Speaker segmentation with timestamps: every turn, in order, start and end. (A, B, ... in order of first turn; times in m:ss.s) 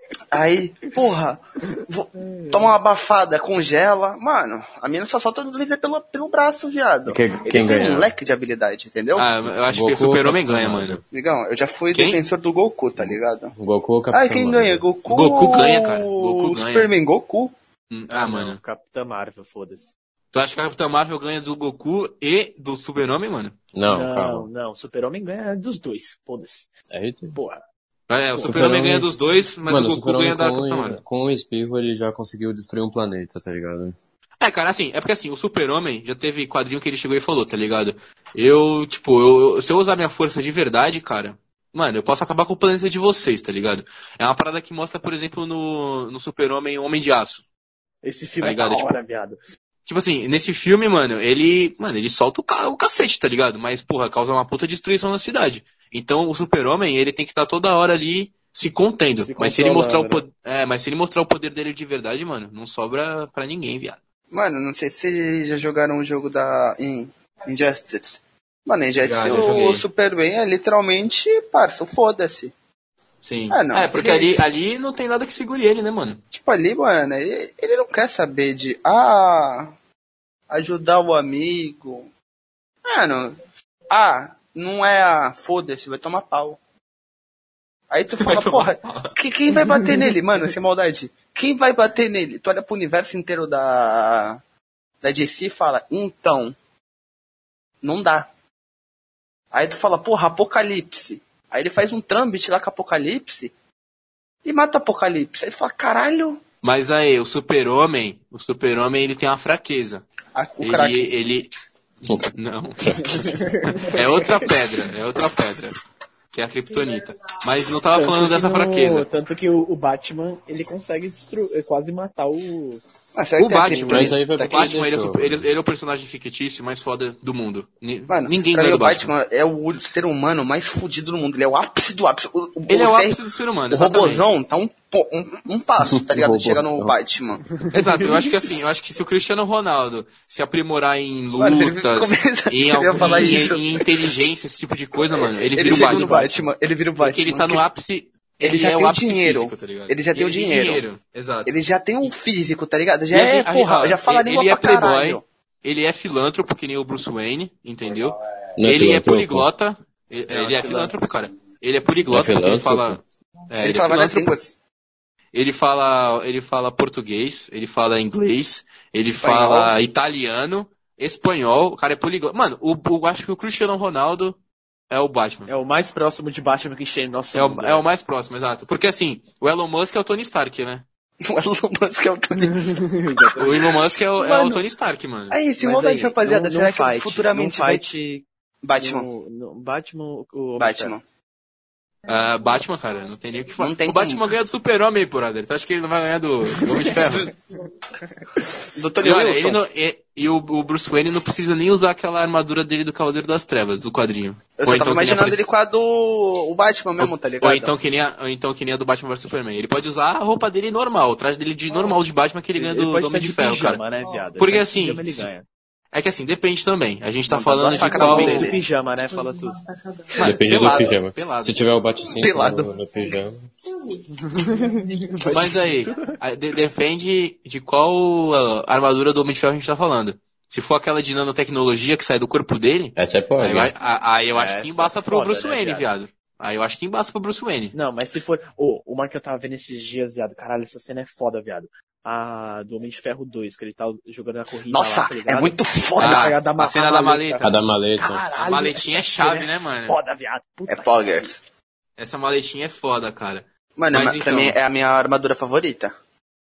0:00.3-0:09.3 A
0:01.7-0:02.8 B
0:07.0-0:08.1 C
0:09.1-0:11.0 D
0:09.7-0:11.0 C
0:11.1-0:13.5 A
0:11.9-0:12.2 D
0:13.0-0:14.8 C
0:14.1-0:17.5 A
0:15.1-0:16.9 D
0:17.9-0:18.6 D
0:18.1-0:19.9 B
0:20.3-0:23.6 D
0:23.7-0:24.5 C
0:23.9-0:26.7 B
0:26.9-0:27.4 C
0:27.3-0:27.6 B
0:28.1-0:31.0 D
0:28.4-0:29.1 C
0:29.7-0:34.0 C
0:34.4-0:47.4 D
0:48.0-0:49.4 B
0:48.4-0:48.9 D
0:49.8-1:04.0 D
0:59.2-1:00.2 B
1:04.3-1:12.5 A
1:09.0-1:09.8 D
1:13.2-1:16.2 D
1:13.5-1:14.4 A
1:16.3-1:19.7 A
1:20.5-1:22.1 A
1:22.8-1:23.4 A
1:23.9-1:26.6 A
1:27.9-1:34.4 A
1:28.1-1:29.1 D
1:35.0-1:36.6 A
1:37.8-1:38.3 A
1:39.5-1:43.5 A
1:44.4-1:46.4 A
1:46.6-1:50.0 D
1:50.3-1:51.1 A
1:50.6-1:51.5 D
1:52.0-1:53.5 C
1:52.3-1:52.9 D
1:53.1-1:54.5 B
1:53.7-1:55.8 D
1:56.3-1:59.1 D
1:57.9-2:02.8 B
2:03.1-2:04.7 A
2:03.4-2:09.1 D
2:03.8-2:05.5 C
2:08.1-2:13.2 A
2:12.7-2:14.4 D
2:13.7-2:17.5 A
2:15.8-2:16.9 C
2:17.6-2:18.1 B
2:17.7-2:26.5 D
2:21.4-2:24.1 A
2:25.0-2:27.6 A
2:25.6-2:26.3 B
2:27.0-2:32.1 D
2:28.4-2:30.8 A
2:31.4-2:35.2 A
2:33.1-2:44.3 D
2:38.6-2:39.5 C
2:40.3-2:40.9 B
2:42.1-2:43.0 C
2:43.6-2:44.5 A
2:45.3-2:54.4 D
2:49.2-2:49.7 A
2:54.9-2:55.5 D
2:55.5-2:57.8 B
2:57.3-3:00.8 D
3:01.2-3:02.7 A
3:02.4-3:03.6 B
3:03.4-3:04.6 A
3:03.4-3:05.4 D
3:05.3-3:07.8 A
3:05.6-3:10.9 B
3:08.6-3:09.1 A
3:10.6-3:11.0 A
3:12.1-3:17.3 D
3:13.6-3:14.2 A
3:16.6-3:16.9 B
3:16.9-3:17.3 A
3:18.2-3:18.7 B
3:18.7-3:19.6 A
3:19.0-3:25.5 D
3:24.6-3:27.7 A
3:27.0-3:33.8 D
3:32.6-3:35.5 B
3:34.4-3:35.3 D
3:35.9-3:38.5 D
3:37.3-3:38.6 A
3:37.7-3:39.6 B
3:40.2-3:41.6 D
3:40.2-3:43.5 C
3:40.3-3:40.6 A
3:42.1-3:42.7 A
3:44.2-3:46.1 B
3:45.3-3:57.7 D
3:53.0-3:53.7 C
3:54.3-3:55.9 B
3:57.7-4:11.3 B
4:04.7-4:06.4 A
4:06.0-4:07.5 D
4:07.4-4:08.2 C
4:08.4-4:10.0 D
4:10.7-4:11.4 A
4:12.0-4:14.6 D
4:13.8-4:15.9 A